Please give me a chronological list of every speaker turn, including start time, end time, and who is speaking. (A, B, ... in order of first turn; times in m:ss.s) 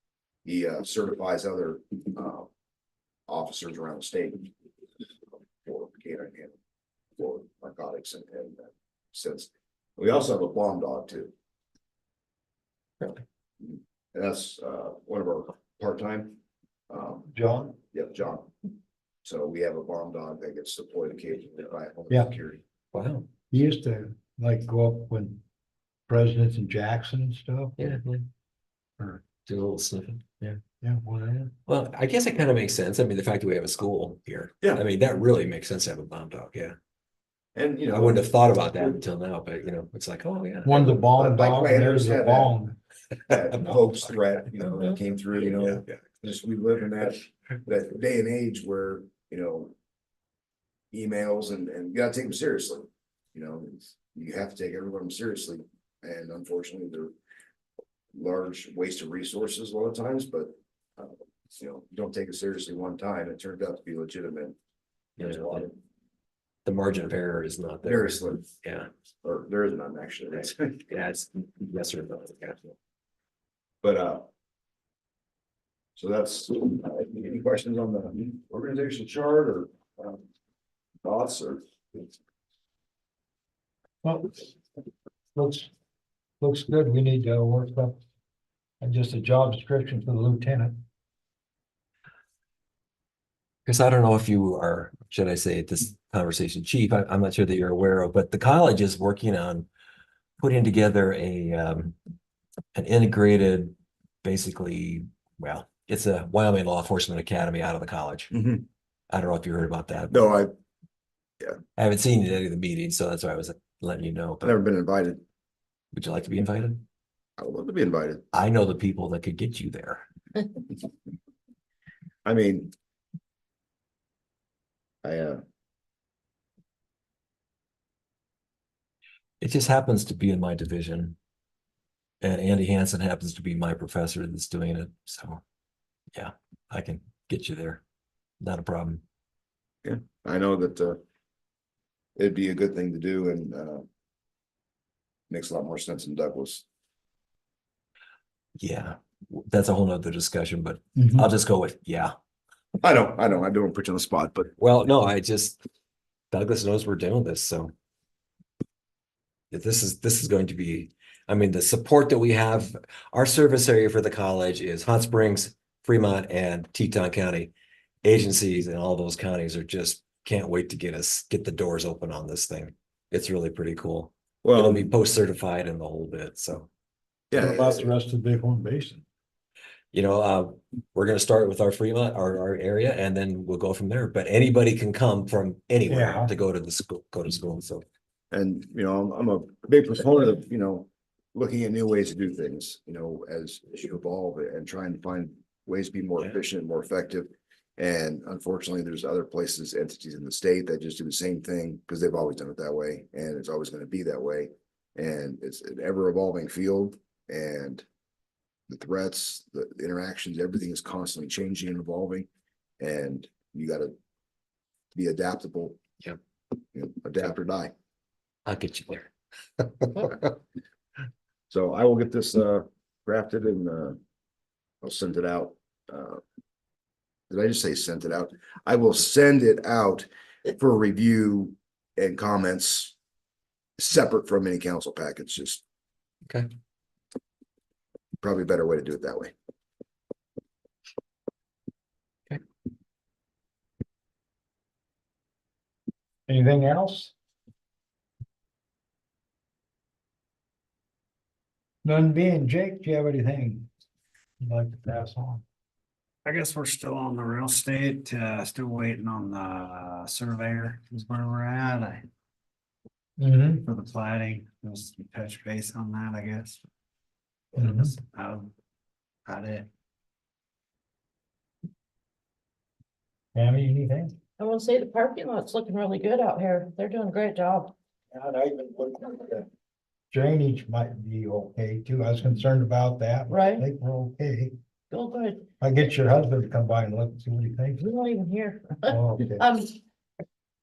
0:00.4-0:02.5 A
0:03.3-0:04.5 A
0:05.6-0:06.6 A
0:07.2-0:11.3 A
0:13.6-0:16.4 A
0:16.9-0:17.3 A
0:17.3-0:17.8 B
0:17.9-0:18.5 A
0:19.2-0:22.6 A
0:22.9-0:23.3 C
0:23.5-0:25.4 B
0:26.1-0:27.9 B
0:27.8-0:28.3 C
0:29.4-0:30.6 C
0:30.8-0:31.5 B
0:31.7-0:36.8 C
0:37.5-0:39.0 A
0:37.9-0:40.8 C
0:40.6-0:42.8 B
0:40.9-0:42.6 A
0:43.3-0:49.7 A
0:45.6-0:45.9 C
0:50.9-0:57.1 A
0:58.1-1:04.6 A
1:05.2-1:05.6 C
1:05.2-1:05.8 A
1:06.6-1:08.9 C
1:07.8-1:08.5 A
1:09.2-1:10.8 A
1:10.4-1:12.7 C
1:13.8-1:14.3 A
1:16.0-1:20.2 A
1:21.0-1:22.1 A
1:24.0-1:24.5 B
1:25.3-1:25.7 B
1:26.4-1:28.0 B
1:28.8-1:30.7 B
1:33.6-1:39.7 C
1:40.4-1:41.9 C
1:42.7-1:48.3 C
1:48.3-1:48.6 A
1:49.1-1:50.1 C
1:50.1-1:50.5 A
1:51.8-1:54.5 C
1:54.4-1:55.2 A
1:55.9-1:56.8 C
1:57.4-1:58.2 A
1:58.3-2:00.0 C
2:02.2-2:02.7 A
2:05.0-2:05.4 A
2:09.4-2:11.2 C
2:12.2-2:15.4 C
2:16.1-2:17.8 C
2:18.4-2:19.0 C
2:19.8-2:21.0 A
2:22.2-2:23.8 A
2:25.3-2:26.6 A
2:28.6-2:32.1 C
2:31.0-2:31.3 B
2:32.8-2:34.5 A
2:34.6-2:35.6 C
2:36.3-2:37.7 C
2:39.5-2:47.5 C
2:48.0-2:56.7 C
2:54.4-2:54.9 A
2:57.3-2:57.9 A
2:57.3-2:59.0 B
2:59.9-3:07.8 C
3:05.9-3:06.3 B
3:08.3-3:27.8 A
3:28.7-3:32.3 A
3:32.8-3:33.9 A
3:34.9-3:35.8 A
3:36.7-3:37.7 A
3:38.4-3:40.3 C
3:41.5-3:44.0 A
3:44.8-3:46.2 A
3:47.3-3:52.9 A
3:53.8-3:55.6 A
3:58.2-3:59.3 A
4:06.3-4:07.1 B
4:11.8-4:13.7 B
4:14.4-4:15.4 B
4:16.2-4:22.0 D
4:23.2-4:23.6 B
4:23.6-4:26.6 D
4:27.5-4:28.5 D
4:27.6-4:27.9 B
4:29.2-4:29.7 D
4:33.3-4:34.1 B
4:34.4-4:37.7 E
4:38.1-4:39.5 B
4:40.1-4:44.5 B
4:43.3-4:43.6 E
4:44.9-4:45.5 E
4:45.6-4:47.8 B
4:47.8-4:49.8 E
4:48.9-4:49.4 B